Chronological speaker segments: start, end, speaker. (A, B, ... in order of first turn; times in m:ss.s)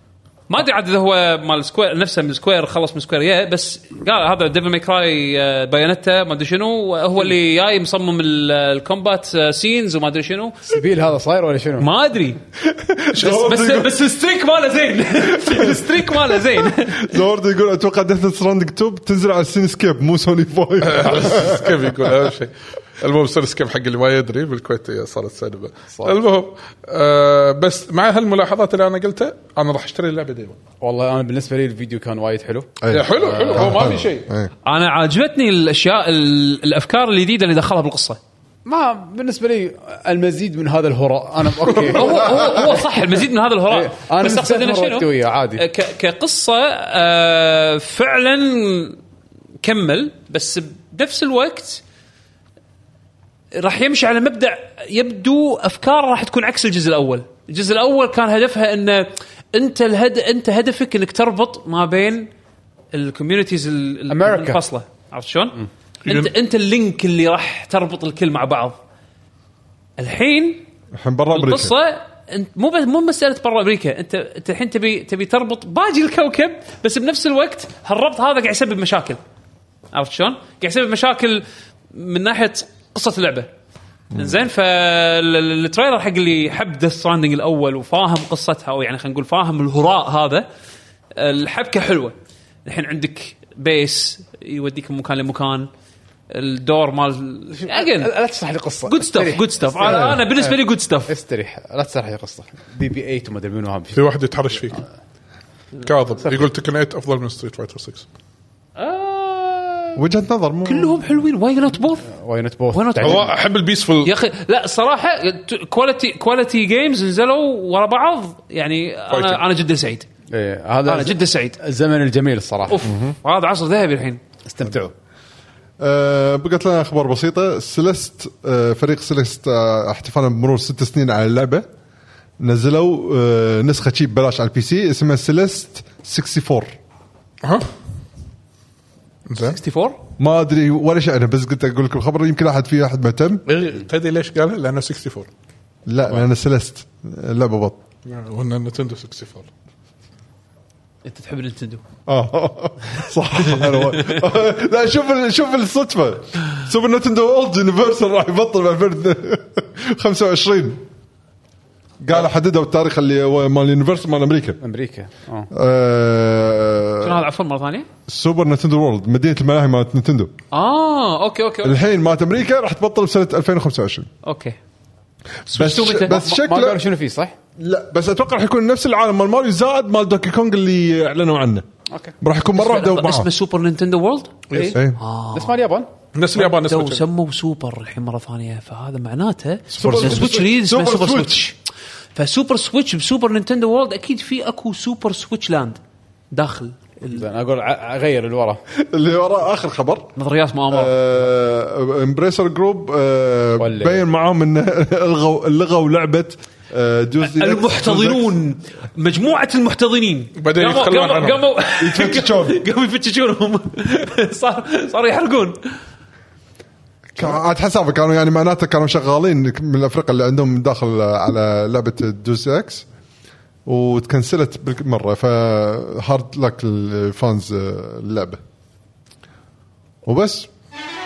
0:00.5-0:10.8 A
0:10.7-0:11.9 B
0:11.8-0:12.4 A
0:12.6-0:14.0 C
0:13.1-0:17.2 A
0:15.2-0:22.1 C
0:20.8-0:30.6 D
0:30.8-0:33.7 B
0:32.8-0:34.5 C
0:32.9-0:34.3 D
0:34.6-0:38.2 A
0:38.6-0:42.8 B
0:41.8-0:49.0 A
0:43.7-0:45.6 B
0:49.6-0:51.8 A
0:53.5-1:02.3 A
1:02.9-1:08.8 A
1:04.1-1:04.6 B
1:06.0-1:06.3 D
1:10.0-1:10.6 A
1:10.9-1:11.7 C
1:11.3-1:19.2 A
1:19.9-1:23.5 A
1:24.1-1:30.5 A
1:31.2-1:35.7 A
1:36.3-1:38.1 A
1:37.5-1:44.0 B
1:38.8-1:41.1 A
1:43.9-1:44.8 D
1:45.8-1:48.0 D
1:48.8-1:50.0 A
1:50.0-1:51.0 C
1:50.6-1:52.1 A
1:52.1-1:53.3 B
1:52.7-1:53.3 A
1:53.0-1:54.1 D
1:54.0-2:00.1 A
1:59.1-1:59.4 D
2:00.3-2:02.8 B
2:00.8-2:01.6 A
2:02.7-2:04.2 A
2:02.8-2:03.1 C
2:04.4-2:04.9 B
2:05.8-2:11.6 C
2:12.4-2:16.8 C
2:19.3-2:19.6 D
2:19.4-2:20.0 A
2:20.2-2:23.4 C
2:23.4-2:25.3 D
2:25.8-2:27.8 C
2:28.0-2:29.5 D
2:31.0-2:31.8 A
2:32.1-2:40.8 C
2:33.6-2:34.1 A
2:42.0-2:44.6 C
2:44.6-2:45.5 B
2:45.5-2:47.2 C
2:47.0-2:47.9 A
2:48.1-2:50.3 C
2:50.5-2:51.8 A
2:51.6-2:54.1 C
2:54.2-2:54.6 A
2:55.5-2:56.2 A
2:55.5-2:56.8 C
2:56.0-2:57.4 B
2:57.6-3:01.6 C
3:01.9-3:02.1 B
3:02.2-3:03.3 C
3:02.5-3:05.6 A
3:04.5-3:04.8 D
3:04.7-3:05.0 C
3:05.3-3:05.9 B
3:06.1-3:07.0 D
3:06.3-3:11.6 A
3:09.7-3:11.4 C
3:12.1-3:15.8 A
3:16.3-3:17.2 A
3:17.0-3:18.6 B
3:18.7-3:20.1 C
3:20.2-3:20.9 A
3:20.7-3:28.3 C
3:23.6-3:24.0 B
3:27.2-3:35.6 A
3:30.4-3:31.4 D
3:31.8-3:32.6 C
3:37.2-3:42.8 C
3:43.6-3:48.4 C
3:50.0-3:50.5 C